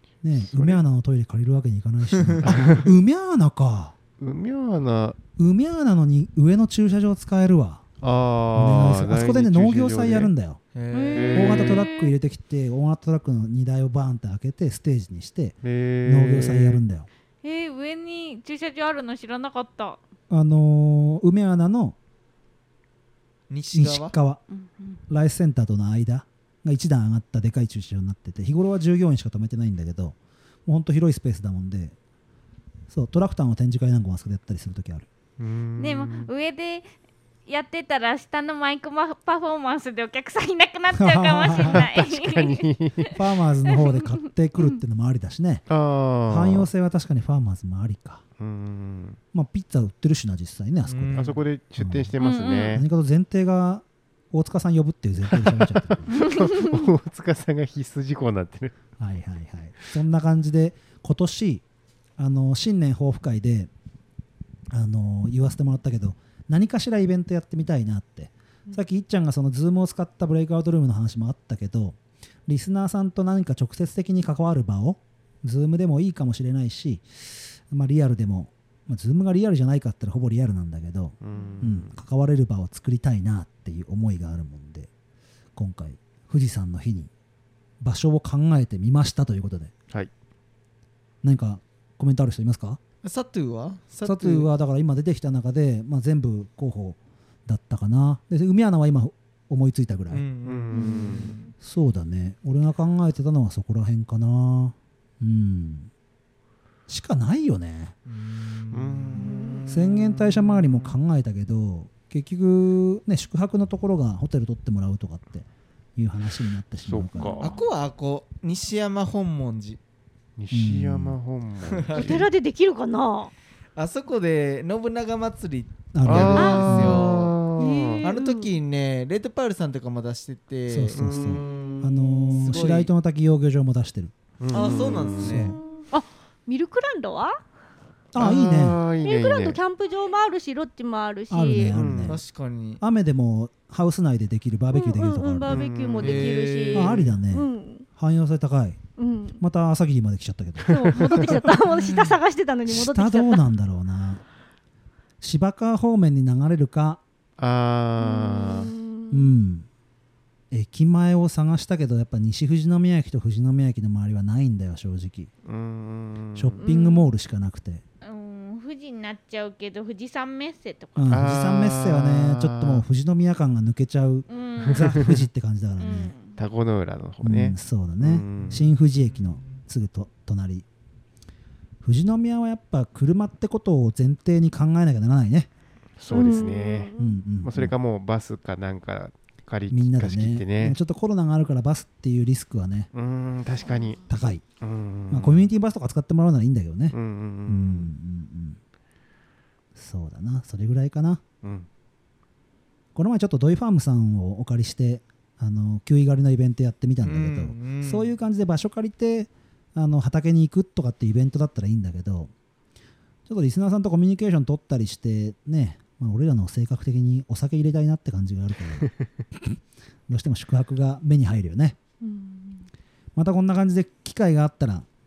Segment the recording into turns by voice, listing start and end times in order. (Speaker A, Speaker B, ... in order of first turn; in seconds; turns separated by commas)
Speaker A: 0.2-4.0, Speaker B: 0.3-0.8, Speaker B: 2.6-2.8, Speaker B: 4.2-5.2, Speaker A: 5.4-7.8, Speaker B: 8.0-10.3, Speaker A: 8.5-10.6, Speaker C: 10.7-11.6, Speaker D: 10.9-12.1, Speaker B: 11.1-11.8, Speaker A: 11.3-17.1, Speaker B: 15.6-16.8, Speaker D: 17.4-20.0, Speaker A: 20.3-22.0, Speaker C: 23.5-24.2, Speaker A: 23.7-24.4, Speaker D: 24.5-25.0, Speaker A: 25.1-32.0, Speaker A: 32.9-35.1, Speaker B: 35.4-36.3, Speaker D: 35.8-36.9, Speaker D: 37.5-42.7, Speaker A: 40.9-41.8, Speaker B: 41.6-43.1, Speaker A: 43.1-45.6, Speaker B: 45.7-46.7, Speaker A: 46.3-48.2, Speaker B: 48.4-49.2, Speaker A: 49.3-52.1, Speaker C: 50.9-51.5, Speaker B: 51.1-52.9, Speaker D: 52.2-52.9, Speaker A: 52.7-56.2, Speaker B: 56.1-58.7, Speaker A: 59.0-61.6, Speaker A: 62.2-63.7, Speaker A: 64.7-84.9, Speaker B: 81.2-82.0, Speaker A: 85.6-87.1, Speaker A: 87.8-89.7, Speaker A: 91.2-92.8, Speaker C: 93.0-94.5, Speaker A: 94.0-100.2, Speaker C: 100.1-101.5, Speaker B: 100.5-101.3, Speaker E: 100.8-101.1, Speaker A: 101.6-105.9, Speaker A: 106.9-108.0, Speaker C: 108.1-109.4, Speaker B: 108.7-110.9, Speaker A: 109.7-117.5, Speaker B: 116.8-117.6, Speaker C: 117.4-119.8, Speaker B: 120.4-122.3, Speaker A: 120.5-121.2, Speaker C: 121.7-122.2, Speaker E: 121.9-123.3, Speaker C: 123.8-127.4, Speaker A: 125.9-127.1, Speaker B: 126.1-128.1, Speaker E: 126.3-126.7, Speaker E: 127.6-128.5, Speaker C: 128.0-132.9, Speaker A: 130.7-135.6, Speaker B: 131.0-131.8, Speaker E: 132.3-132.6, Speaker B: 134.4-135.2, Speaker C: 134.5-135.6, Speaker E: 135.2-137.3, Speaker A: 138.1-138.8, Speaker B: 138.2-139.6, Speaker E: 139.0-141.8, Speaker A: 141.3-142.2, Speaker B: 141.7-142.2, Speaker C: 142.1-142.8, Speaker A: 142.8-145.7, Speaker E: 144.7-147.9, Speaker B: 145.5-146.2, Speaker C: 146.0-147.2, Speaker A: 146.7-148.8, Speaker E: 149.0-149.4, Speaker A: 149.4-151.6, Speaker E: 150.7-153.4, Speaker A: 152.7-154.2, Speaker A: 155.2-157.0, Speaker B: 157.4-158.7, Speaker E: 158.0-159.3, Speaker A: 159.1-159.7, Speaker A: 160.5-165.3, Speaker B: 165.4-166.7, Speaker A: 166.3-167.8, Speaker D: 166.6-167.1, Speaker D: 168.0-171.3, Speaker A: 171.0-176.1, Speaker B: 171.1-172.8, Speaker D: 174.3-175.1, Speaker D: 175.8-176.4, Speaker B: 176.4-178.6, Speaker A: 177.2-180.7, Speaker C: 178.4-178.7, Speaker A: 181.8-185.5, Speaker B: 186.0-190.8, Speaker E: 186.1-187.3, Speaker A: 187.0-187.7, Speaker A: 189.7-192.9, Speaker B: 192.9-194.1, Speaker A: 194.1-194.4, Speaker B: 194.6-195.5, Speaker A: 195.1-198.6, Speaker B: 196.9-197.9, Speaker A: 199.8-201.2, Speaker B: 201.4-201.7, Speaker A: 202.9-212.3, Speaker C: 207.0-208.2, Speaker A: 213.3-221.8, Speaker E: 222.0-222.7, Speaker A: 223.2-224.9